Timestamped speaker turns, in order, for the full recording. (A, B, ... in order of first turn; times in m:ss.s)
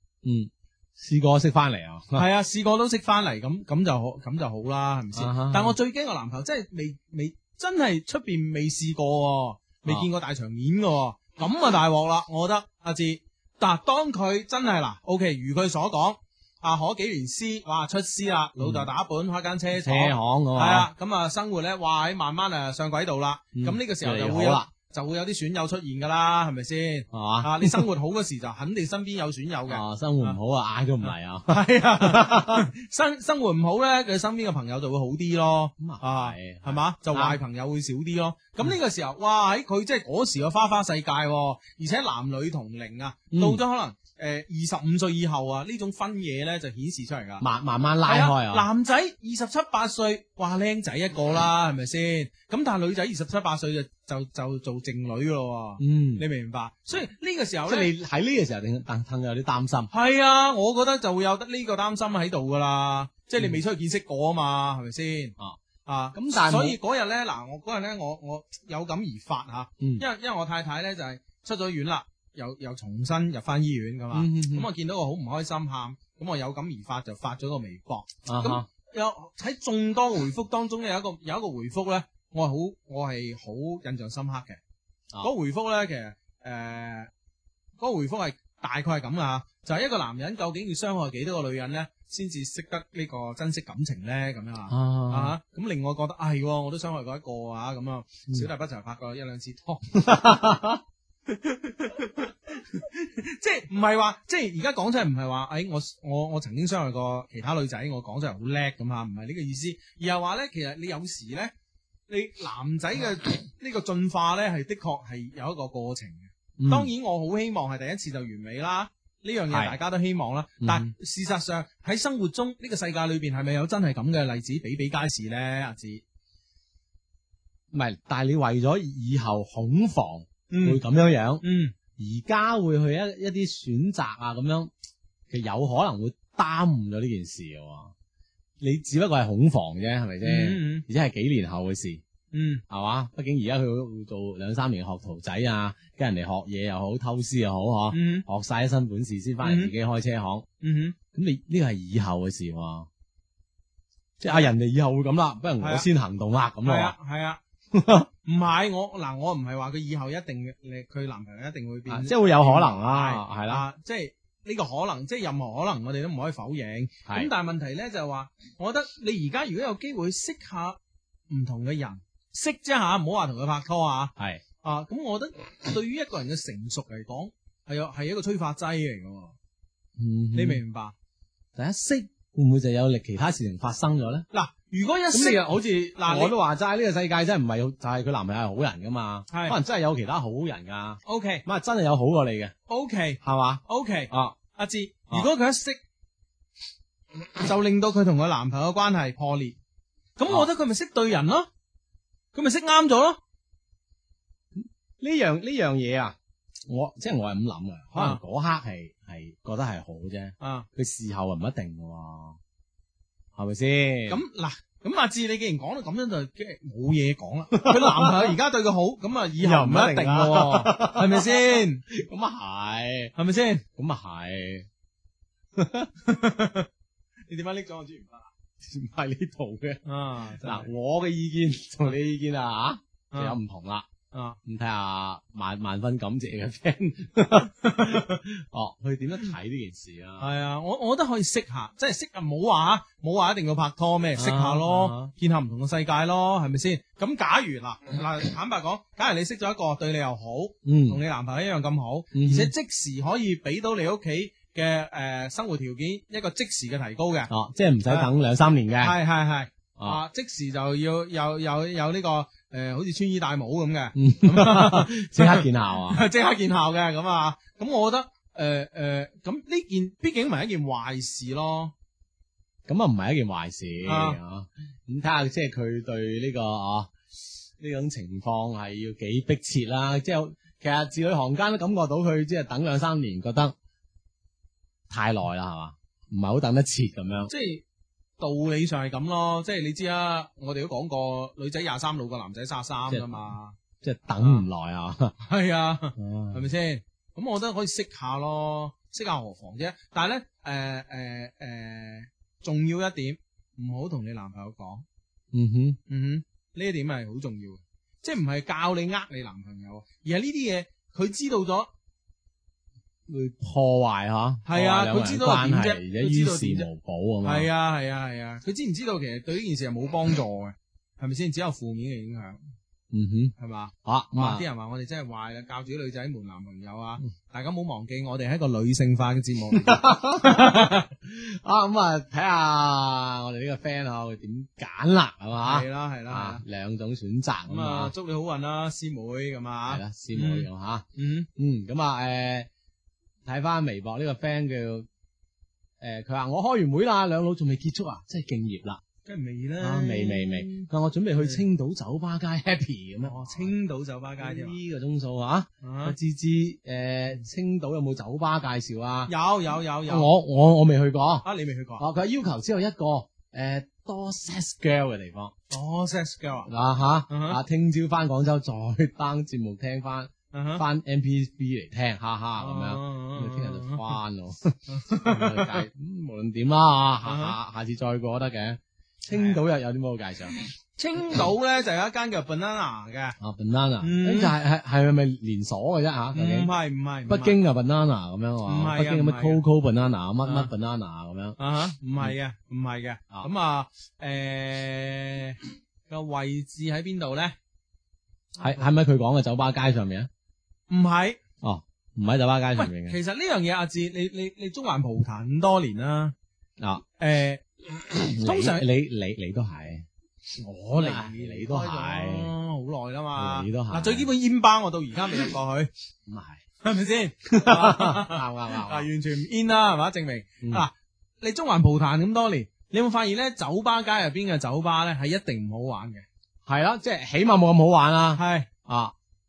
0:00.2-0:02.2 A
0:02.2-0:30.4 B
0:05.2-0:05.8 A
0:18.6-0:18.9 A
0:19.7-0:20.9 A
0:23.6-0:24.7 A
0:27.1-0:27.9 A
0:29.7-0:32.7 A
0:31.0-0:47.4 B
0:35.8-0:37.4 A
0:43.3-0:43.6 A
0:47.4-0:48.7 A
0:48.1-0:57.9 B
0:55.8-0:56.2 A
0:57.7-0:59.9 A
0:59.9-1:24.6 B
1:06.1-1:06.8 A
1:14.1-1:14.7 A
1:18.3-1:18.6 A
1:25.2-1:27.1 B
1:27.8-1:40.1 B
1:34.7-1:35.4 A
1:40.0-1:40.8 A
1:41.3-1:51.5 B
1:52.1-2:06.0 B
1:56.6-1:56.9 A
1:59.5-1:59.8 A
2:00.6-2:00.9 A
2:07.7-2:11.4 A
2:10.5-2:10.8 B
2:11.4-2:11.7 B
2:12.0-2:14.7 A
2:15.3-2:17.9 A
2:18.6-2:22.0 A
2:20.2-2:20.9 B
2:22.3-2:22.6 B
2:22.7-2:30.4 A
2:27.9-2:28.2 B
2:29.4-2:29.7 B
2:30.6-2:31.0 B
2:31.1-2:32.9 A
2:34.2-2:36.9 A
2:35.6-2:35.9 B
2:36.6-2:37.4 B
2:37.7-2:38.1 A
2:38.2-2:50.8 B
2:41.9-2:43.6 A
2:47.1-2:47.3 A
2:51.3-2:59.4 B
2:54.2-2:54.4 A
3:00.0-3:00.6 A
3:00.3-3:00.9 B
3:01.6-3:04.3 A
3:04.3-3:06.4 B
3:05.1-3:12.5 A
3:09.3-3:09.6 B
3:11.0-3:11.4 B
3:12.7-3:15.8 B
3:13.2-3:14.4 A
3:17.4-3:19.6 B
3:20.2-3:21.5 B
3:22.3-3:23.2 B
3:24.6-3:26.2 A
3:26.7-3:32.4 A
3:27.9-3:28.2 B
3:30.4-3:30.7 B
3:33.4-3:34.2 A
3:34.1-3:41.8 B
3:37.5-3:38.4 A
3:39.4-3:43.1 A
3:43.2-3:43.6 B
3:43.8-3:44.7 A
3:45.6-3:45.9 A
3:46.0-3:46.7 B
3:47.3-3:48.3 B
3:48.6-3:53.9 A
3:49.9-3:50.7 B
3:53.1-3:53.4 B
3:54.1-3:54.4 B
3:54.4-4:00.3 A
3:57.6-3:58.2 B
4:00.2-4:17.3 B
4:04.2-4:05.1 A
4:10.6-4:11.0 A
4:12.1-4:12.5 A
4:17.3-4:19.0 A
4:17.9-4:18.1 B
4:18.8-4:31.7 B
4:19.8-4:20.0 A
4:23.9-4:26.1 A
4:32.6-4:36.9 A
4:33.8-4:34.2 B
4:37.6-4:43.6 A
4:44.9-4:47.3 A
4:47.3-4:47.6 B
4:48.2-4:53.6 B
4:52.9-4:53.3 A
4:53.8-4:55.2 A
4:54.2-4:54.4 B
4:55.2-5:04.8 B
4:56.0-4:56.4 A
5:05.3-5:05.8 A
5:05.9-5:11.7 B
5:13.1-5:17.5 A
5:14.4-5:16.7 B
5:17.2-5:22.4 B
5:22.9-5:24.4 A
5:23.4-5:30.9 B
5:29.6-5:37.9 A
5:35.4-5:36.4 B
5:37.5-5:41.3 B
5:39.7-5:40.8 A
5:41.4-5:42.5 A
5:43.2-5:44.9 A
5:45.8-5:48.8 A
5:49.0-5:50.7 B
5:49.6-5:53.5 A
5:53.0-5:54.6 B
5:54.2-5:59.1 A
5:55.6-5:56.0 B
5:59.1-6:00.1 B
5:59.9-6:01.3 A
6:01.2-6:01.8 B
6:01.8-6:05.3 A
6:05.5-6:06.5 B
6:06.5-6:20.4 A
6:07.1-6:07.4 B
6:10.3-6:10.6 B
6:12.4-6:14.0 B
6:14.7-6:15.6 B
6:17.0-6:17.4 B
6:19.1-6:19.4 B
6:20.8-6:23.2 B
6:23.2-6:26.5 A
6:23.8-6:24.4 B
6:26.1-6:27.4 B
6:27.1-6:31.4 A
6:28.4-6:29.4 B
6:30.2-6:30.5 B
6:31.4-6:35.4 B
6:35.9-6:37.4 B
6:38.4-6:40.1 A
6:40.7-6:41.2 B
6:41.4-6:43.0 A
6:42.6-6:46.1 B
6:47.0-6:47.4 B
6:48.0-6:48.6 B
6:48.1-6:49.9 A
6:50.4-6:55.7 B
6:50.7-6:52.3 A
6:53.2-6:54.1 A
6:56.1-6:56.4 A
6:56.6-7:06.0 B
6:57.3-6:58.9 A
7:06.4-7:08.9 A
7:08.2-7:08.5 B